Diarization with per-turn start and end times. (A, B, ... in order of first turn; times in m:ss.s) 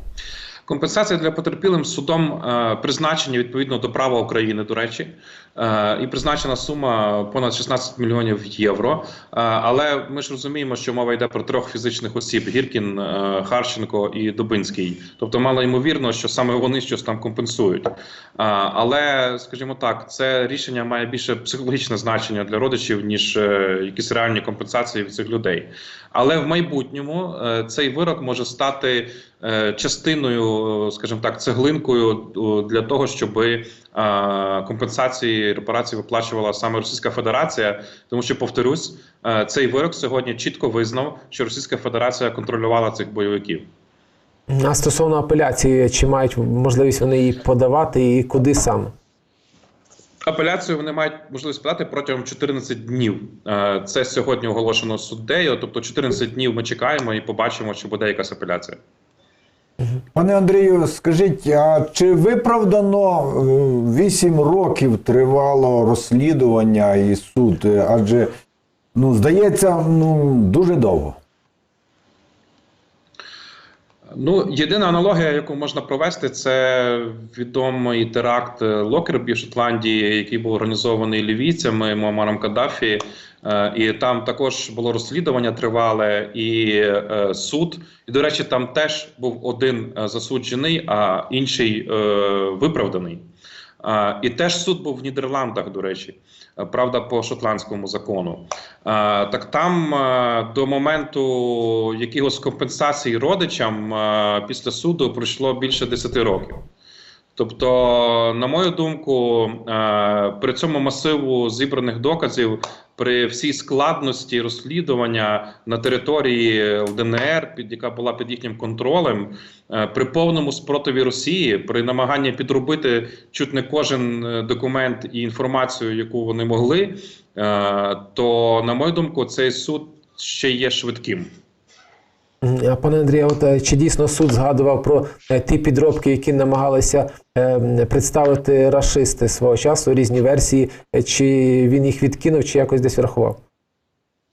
0:00.6-0:43.7 A
0:44.5-0:48.9 B
0:50.2-0:58.8 A
1:00.1-1:08.3 C
1:08.9-1:11.2 C
1:14.1-1:33.2 A
1:33.8-1:46.6 A
1:47.4-2:11.3 A
2:12.4-2:23.4 B